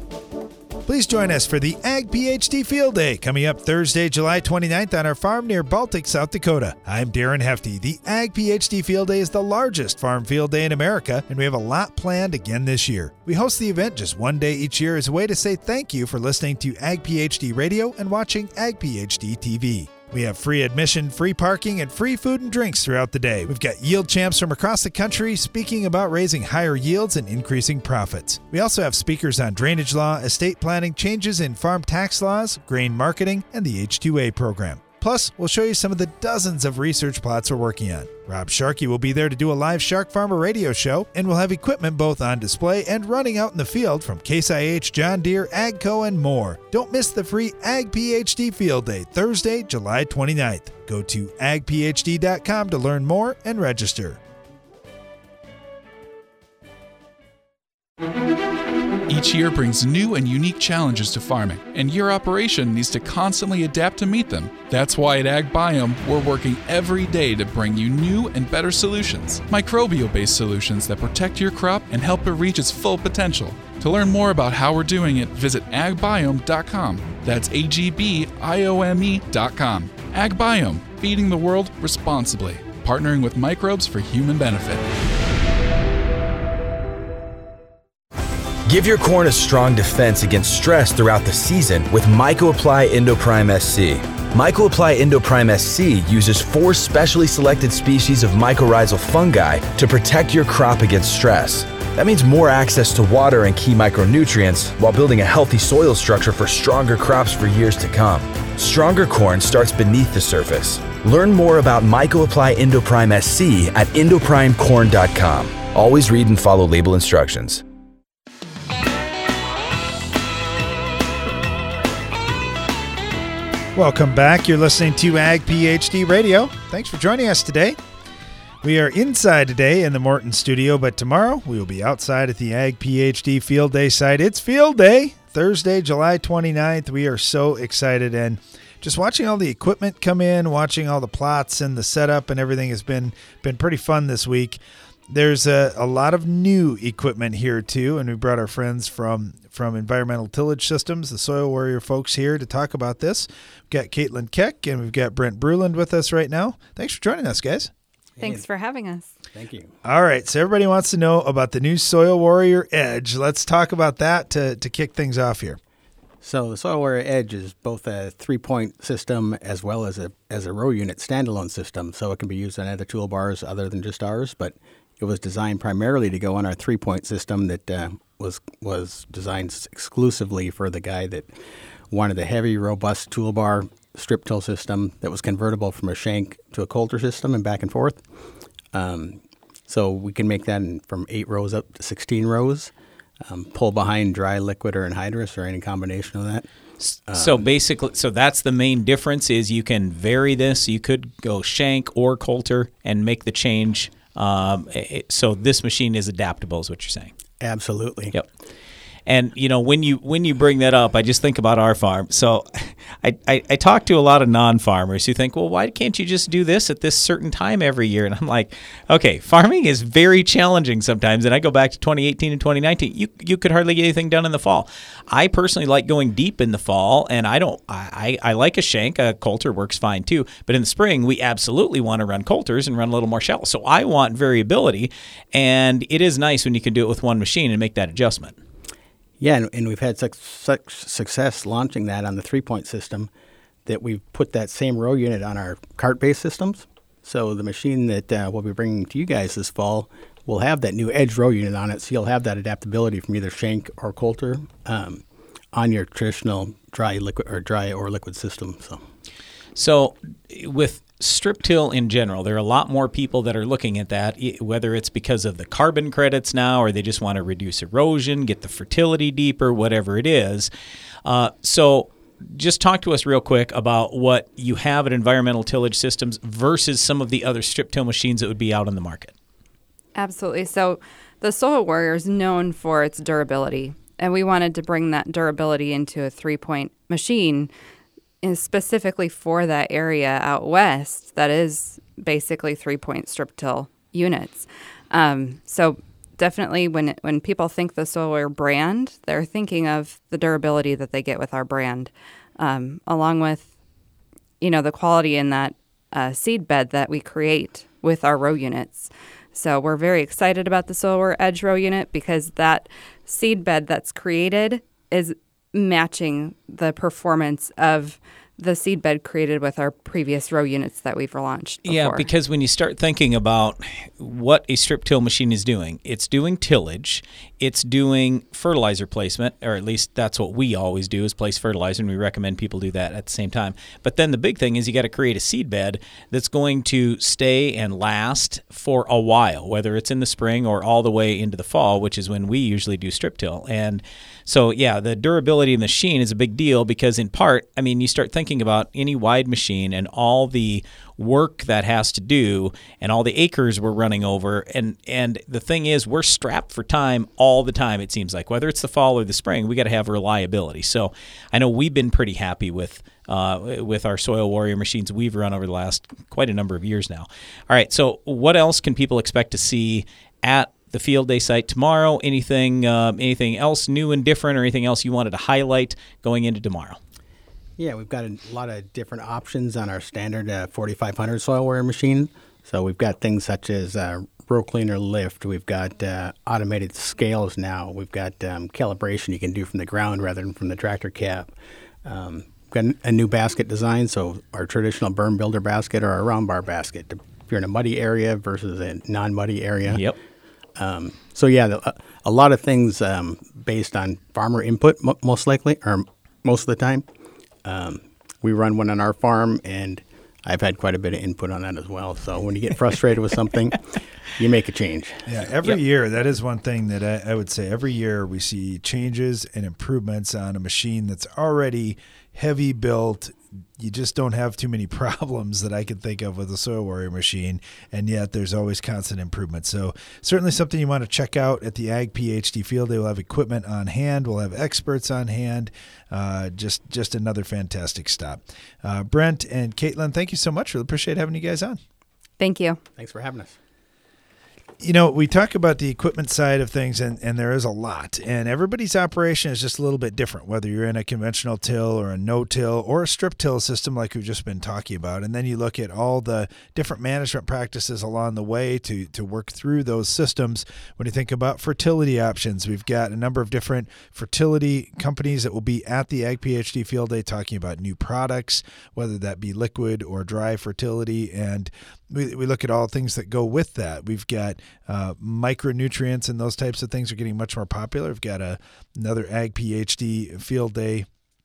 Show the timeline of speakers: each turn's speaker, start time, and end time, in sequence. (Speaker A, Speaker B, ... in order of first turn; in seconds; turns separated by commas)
Speaker A: 0.9-54.2, Speaker B: 59.1-84.8, Speaker C: 88.7-117.6, Speaker A: 123.7-127.8, Speaker A: 128.6-157.7, Speaker D: 158.2-158.5, Speaker E: 158.2-159.1, Speaker D: 159.3-159.7, Speaker A: 159.8-165.6, Speaker D: 166.2-181.3, Speaker D: 181.9-188.0, Speaker D: 188.7-192.7, Speaker D: 193.2-196.4, Speaker F: 196.8-207.1, Speaker D: 197.1-197.5, Speaker D: 207.4-208.1, Speaker F: 209.1-238.3, Speaker D: 239.2-243.1, Speaker D: 243.7-258.8, Speaker F: 259.6-270.5, Speaker F: 271.0-279.1, Speaker E: 279.9-287.5, Speaker E: 288.2-303.5, Speaker E: 304.4-322.1, Speaker F: 321.6-376.8, Speaker D: 377.6-399.9, Speaker F: 399.7-399.9, Speaker D: 400.6-406.8, Speaker D: 407.4-415.1, Speaker A: 415.1-441.6, Speaker E: 442.2-442.6, Speaker D: 442.7-443.4, Speaker A: 444.6-480.9